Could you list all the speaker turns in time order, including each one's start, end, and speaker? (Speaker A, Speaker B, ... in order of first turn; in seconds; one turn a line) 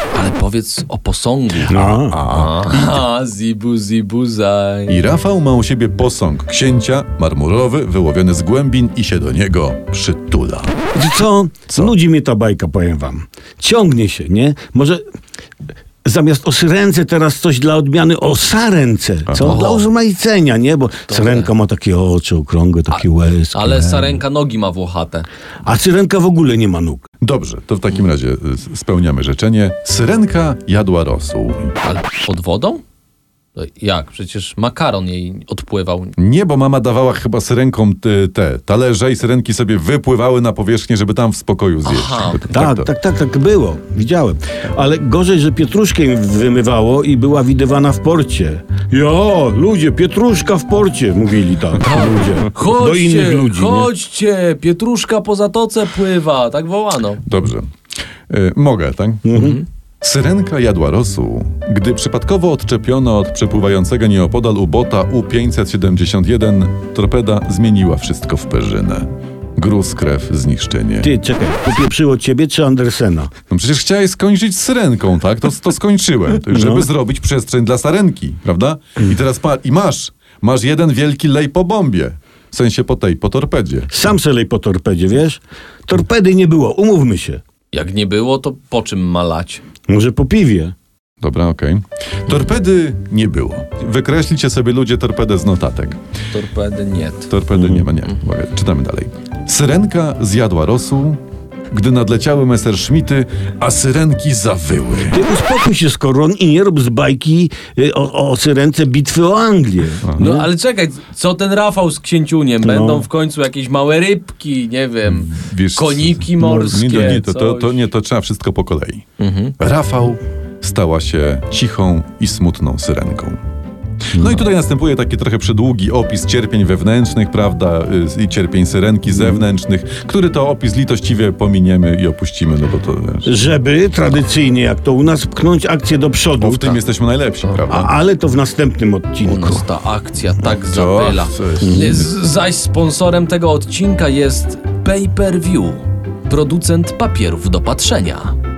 Speaker A: 0.1-5.0
Speaker B: 1.7-2.2
Speaker C: 1.8-3.0
Speaker C: 4.9-10.8
Speaker B: 10.9-15.0
Speaker B: 16.1-24.2
Speaker C: 19.3-19.6
Speaker A: 19.4-19.9
Speaker A: 21.1-21.5
Speaker A: 22.9-25.3
Speaker B: 25.6-27.1
Speaker C: 27.2-31.8
Speaker A: 31.8-32.8
Speaker A: 33.6-36.1
Speaker C: 36.2-42.9
Speaker A: 41.9-42.5
Speaker B: 42.5-53.9
Speaker A: 51.8-57.2
Speaker C: 57.2-57.7
Speaker C: 58.3-71.1
Speaker B: 59.2-59.6
Speaker B: 71.0-73.3
Speaker C: 73.5-83.9
Speaker B: 76.5-76.9
Speaker B: 83.9-87.4
Speaker A: 87.7-89.6
Speaker B: 89.9-90.7
Speaker C: 91.2-96.0
Speaker A: 96.3-97.3
Speaker C: 97.3-105.2
Speaker B: 105.1-110.5
Speaker C: 110.0-110.3
Speaker A: 110.2-117.8
Speaker B: 112.6-113.1
Speaker C: 115.1-119.1
Speaker B: 116.4-117.2
Speaker A: 119.2-119.5
Speaker C: 119.6-123.4
Speaker C: 124.1-133.3
Speaker B: 133.2-136.8
Speaker C: 136.4-137.9
Speaker B: 137.7-139.7
Speaker A: 139.2-148.3
Speaker C: 140.7-142.1
Speaker B: 141.6-141.9